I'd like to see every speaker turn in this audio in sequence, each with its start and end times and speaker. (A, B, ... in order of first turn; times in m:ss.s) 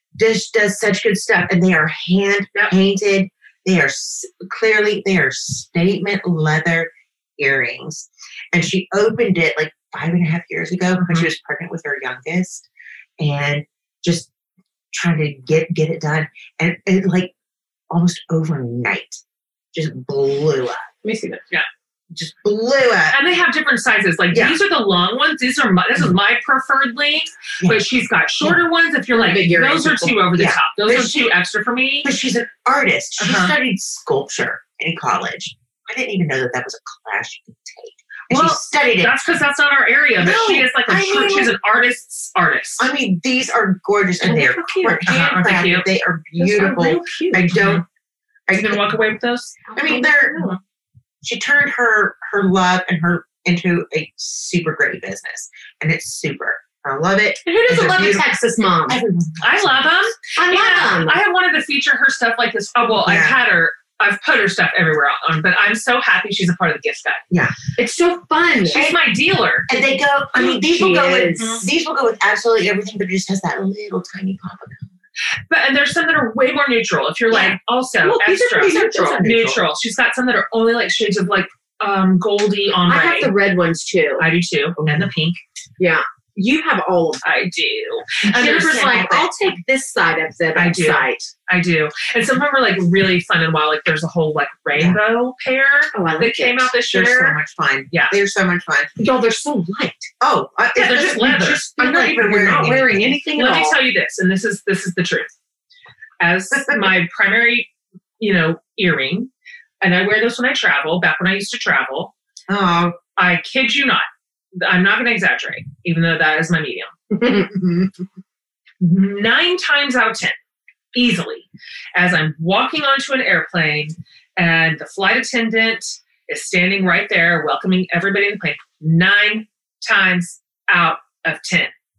0:00.2-0:12.7 A
0:11.0-0:11.3 B
0:13.2-0:14.3 A
0:14.9-0:17.3 A
0:17.9-0:19.2 A
0:19.7-0:20.9 A
0:21.0-0:21.4 C
0:22.1-0:23.2 A
0:23.1-0:32.1 B
0:24.3-0:24.6 A
0:27.6-0:27.9 A
0:29.1-0:30.2 C
0:30.3-0:31.3 A
0:32.0-0:39.1 A
0:33.2-0:33.5 B
0:38.3-0:42.9 B
0:40.2-0:41.5 A
0:42.8-0:47.8 A
0:44.2-0:45.1 C
0:45.0-0:45.8 B
0:46.4-0:47.4 C
0:47.3-0:47.8 B
0:48.5-0:48.9 A
0:48.5-0:49.7 B
0:49.7-0:50.6 C
0:49.7-0:50.4 A
0:51.2-1:01.0 A
0:57.4-0:59.0 C
0:59.4-1:07.2 B
1:00.4-1:01.2 C
1:03.0-1:03.4 A
1:07.3-1:07.6 A
1:07.8-1:08.9 C
1:08.7-1:09.7 B
1:09.7-1:14.9 A
1:10.4-1:11.6 C
1:11.4-1:11.6 B
1:15.5-1:23.3 B
1:17.3-1:19.3 C
1:18.9-1:19.6 A
1:22.8-1:24.3 C
1:24.2-1:25.4 B
1:24.8-1:25.1 A
1:25.8-1:27.3 C
1:27.2-1:29.3 B
1:28.3-1:31.3 C
1:30.5-1:37.4 B
1:35.9-1:36.7 C
1:36.9-1:38.9 A
1:39.0-1:40.1 C
1:40.2-1:43.2 A
1:40.8-1:41.7 B
1:41.7-1:43.8 C
1:43.3-1:45.3 B
1:46.2-1:49.3 B
1:49.8-1:52.1 B
1:52.5-1:53.0 A
1:53.2-1:56.9 B
1:57.1-1:57.5 C
1:57.3-1:58.0 A
1:58.8-2:00.3 B
2:00.9-2:11.7 B